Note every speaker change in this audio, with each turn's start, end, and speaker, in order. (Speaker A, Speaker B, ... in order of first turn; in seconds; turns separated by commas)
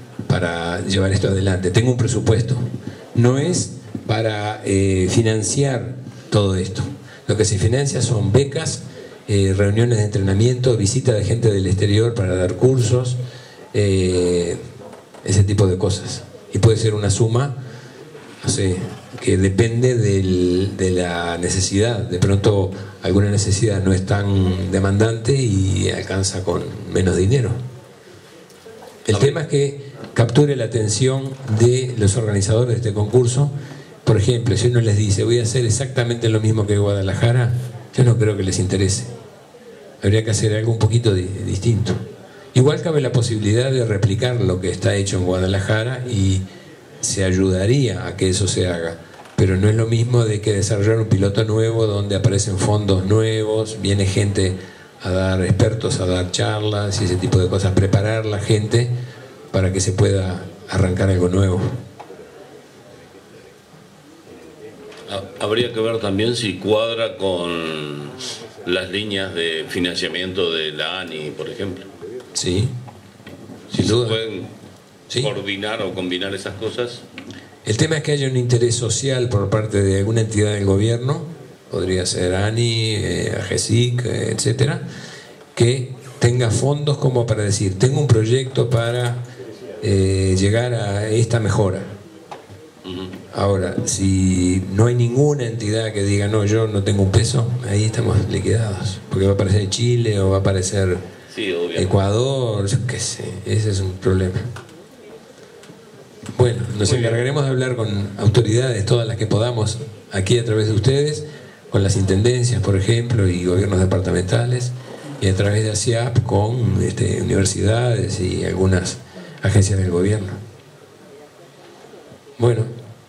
Speaker A: 0.3-13.2, Speaker A: 13.7-14.6, Speaker A: 15.2-17.6, Speaker A: 18.4-27.6, Speaker A: 29.1-33.5, Speaker B: 29.1-29.4, Speaker A: 34.1-39.1, Speaker A: 40.0-42.0, Speaker A: 42.5-46.4, Speaker A: 47.0-59.0, Speaker A: 59.5-61.7, Speaker B: 65.1-71.9, Speaker A: 72.3-72.7, Speaker B: 73.7-74.5, Speaker A: 73.8-74.2, Speaker B: 75.1-77.0, Speaker A: 77.6-84.8, Speaker A: 85.5-89.2, Speaker A: 89.8-92.0, Speaker B: 92.8-93.2, Speaker A: 93.3-101.0, Speaker B: 101.3-102.0, Speaker A: 101.8-104.5, Speaker A: 106.3-120.4, Speaker B: 106.8-107.2, Speaker A: 122.4-122.7